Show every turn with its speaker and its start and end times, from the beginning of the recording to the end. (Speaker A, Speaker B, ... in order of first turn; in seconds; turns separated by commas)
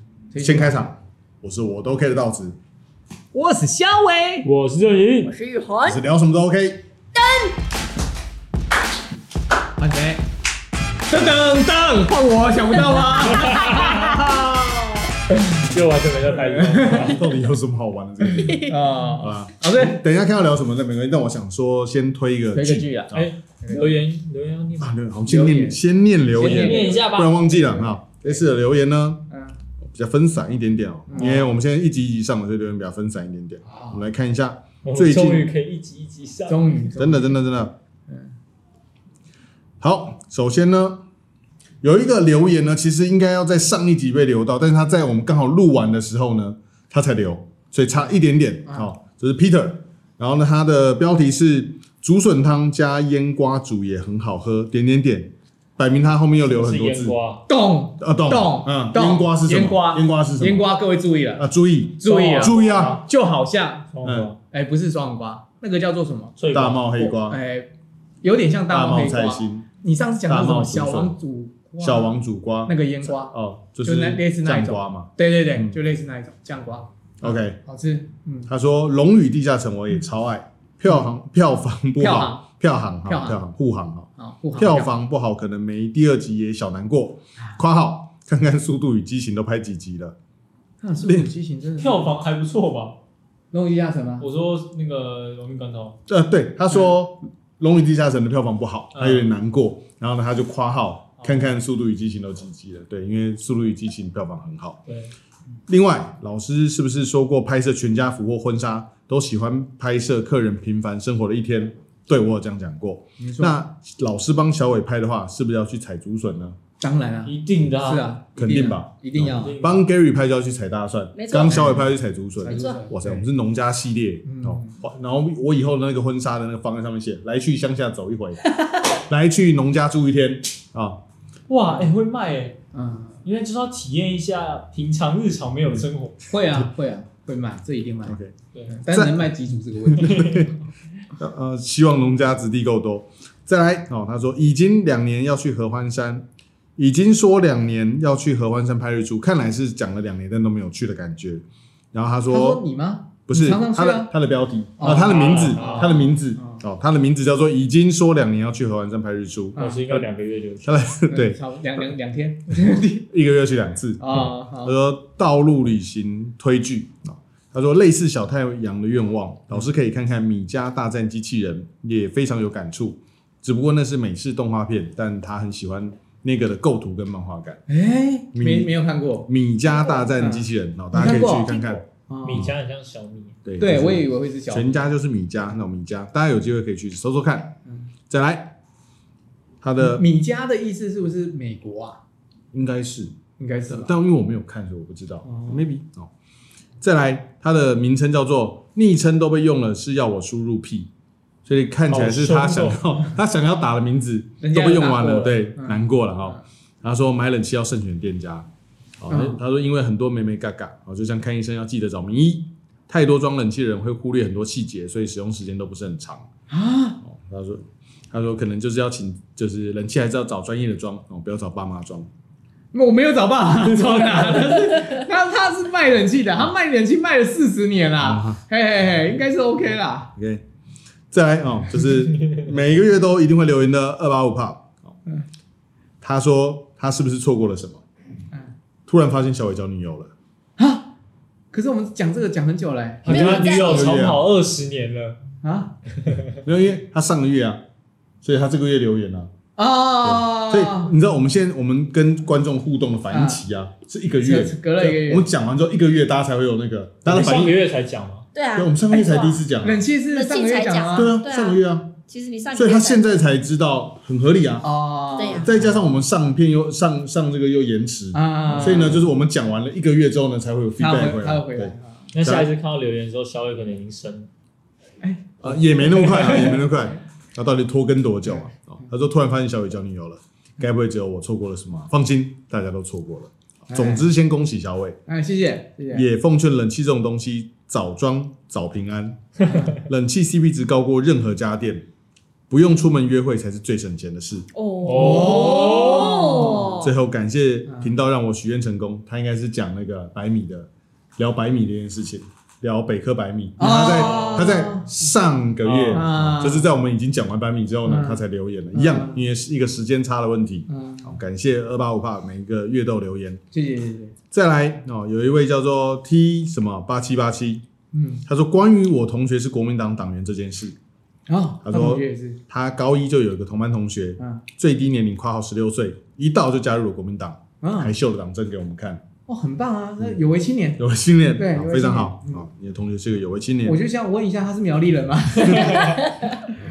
Speaker A: 0.3-0.8, Speaker B: 0.4-2.5, Speaker A: 3.3-4.5, Speaker C: 4.4-5.3, Speaker D: 5.2-6.0, Speaker B: 5.8-6.8, Speaker D: 7.1-7.5, Speaker A: 9.8-10.2, Speaker A: 11.1-14.4, Speaker D: 12.8-15.1, Speaker C: 13.3-14.1, Speaker C: 15.6-17.2, Speaker A: 16.4-17.1, Speaker B: 16.9-23.8, Speaker D: 18.4-18.7, Speaker A: 18.6-20.0, Speaker A: 22.5-23.9, Speaker C: 23.1-24.9, Speaker B: 24.8-29.2, Speaker A: 25.3-27.0, Speaker C: 26.4-27.9, Speaker A: 29.3-29.6, Speaker B: 29.8-35.5, Speaker A: 31.1-31.4, Speaker A: 33.6-34.0, Speaker C: 34.8-36.8, Speaker A: 36.5-37.4, Speaker B: 37.0-37.7, Speaker B: 39.8-41.0, Speaker B: 41.8-57.2, Speaker C: 56.4-57.4, Speaker A: 57.5-63.9, Speaker B: 58.0-60.7, Speaker B: 61.4-63.0, Speaker C: 62.0-63.0, Speaker C: 63.9-64.4, Speaker B: 64.0-64.3, Speaker A: 64.5-66.4, Speaker C: 66.4-66.8, Speaker B: 66.5-67.4, Speaker A: 66.9-67.7, Speaker A: 68.2-78.5, Speaker B: 68.7-69.7, Speaker B: 70.3-71.2, Speaker B: 71.8-75.8, Speaker B: 77.2-77.6, Speaker B: 78.5-90.2, Speaker A: 82.0-82.5, Speaker A: 83.0-83.4, Speaker A: 84.2-84.9, Speaker A: 90.8-92.1, Speaker C: 91.8-93.0, Speaker A: 93.5-94.2, Speaker C: 94.2-96.0, Speaker B: 96.1-104.8, Speaker C: 98.9-99.3, Speaker C: 104.9-105.1, Speaker B: 105.7-116.6, Speaker A: 113.2-113.6, Speaker A: 116.8-119.6, Speaker C: 117.2-118.2, Speaker B: 118.3-128.5, Speaker C: 119.2-119.8, Speaker D: 121.1-121.9, Speaker A: 121.4-121.8, Speaker A: 122.4-123.2, Speaker D: 122.4-122.8, Speaker A: 124.2-124.8, Speaker D: 128.5-128.8, Speaker B: 129.1-131.0, Speaker C: 131.5-132.6, Speaker A: 132.7-133.2, Speaker C: 133.2-136.2, Speaker A: 136.3-138.2, Speaker B: 138.1-140.5, Speaker A: 138.7-140.5, Speaker C: 140.0-140.4, Speaker B: 141.2-152.6, Speaker A: 152.3-154.1, Speaker B: 153.3-160.1, Speaker A: 154.8-156.6, Speaker C: 154.8-156.0, Speaker A: 159.6-159.9, Speaker C: 159.6-160.8, Speaker B: 160.6-161.8, Speaker A: 161.1-163.1, Speaker B: 163.1-177.6, Speaker A: 164.0-164.7, Speaker A: 177.7-179.3, Speaker B: 178.3-178.7, Speaker B: 179.2-182.5, Speaker A: 180.2-182.5, Speaker C: 182.2-183.4, Speaker B: 183.4-187.6, Speaker A: 183.6-184.7, Speaker B: 188.1-188.6, Speaker B: 189.6-190.0, Speaker A: 189.8-192.0, Speaker B: 192.5-193.1, Speaker A: 193.4-193.9, Speaker B: 193.7-196.1, Speaker A: 195.2-195.6, Speaker B: 196.8-200.9, Speaker B: 201.4-208.5, Speaker C: 201.9-202.8, Speaker A: 204.4-206.4, Speaker B: 209.0-216.3, Speaker A: 209.1-209.4, Speaker A: 216.5-217.0, Speaker B: 217.0-222.1, Speaker A: 222.7-230.1, Speaker B: 228.0-228.4, Speaker B: 230.2-230.4, Speaker B: 231.1-234.9, Speaker B: 236.0-237.8, Speaker B: 238.8-240.1, Speaker A: 240.6-240.9, Speaker A: 241.5-243.5, Speaker C: 243.0-245.2, Speaker D: 243.0-244.0, Speaker B: 243.2-244.2, Speaker A: 245.4-245.7, Speaker C: 246.0-246.4, Speaker B: 246.4-247.6, Speaker B: 248.2-249.3, Speaker A: 249.6-250.9, Speaker B: 250.0-257.6, Speaker A: 253.1-253.4, Speaker A: 254.2-255.2, Speaker C: 257.0-258.3, Speaker D: 258.3-259.4, Speaker B: 258.5-259.8, Speaker A: 258.9-261.1, Speaker D: 260.1-263.2, Speaker B: 260.9-261.9, Speaker B: 262.5-264.7, Speaker A: 264.6-265.8, Speaker D: 265.2-265.5, Speaker B: 265.3-272.5, Speaker A: 268.1-269.0, Speaker C: 268.5-268.9, Speaker A: 270.8-272.1, Speaker C: 272.1-274.3, Speaker A: 275.0-276.8, Speaker B: 275.4-285.0, Speaker A: 283.7-284.1, Speaker A: 285.1-286.1, Speaker B: 285.9-291.9, Speaker A: 289.4-289.7, Speaker B: 292.5-294.4, Speaker D: 294.5-296.9, Speaker C: 294.8-296.4, Speaker A: 294.9-296.8, Speaker B: 296.8-313.4, Speaker A: 303.6-304.9, Speaker C: 305.6-306.1, Speaker A: 305.9-306.7, Speaker A: 307.8-308.2, Speaker A: 308.7-309.2, Speaker A: 310.7-311.2, Speaker A: 313.5-314.1, Speaker B: 314.3-317.6, Speaker A: 317.9-318.2, Speaker B: 318.2-320.8, Speaker A: 321.3-322.4, Speaker B: 321.6-329.0, Speaker A: 327.6-327.9, Speaker A: 329.3-330.8, Speaker B: 330.8-333.8, Speaker A: 331.4-332.4, Speaker A: 333.6-336.3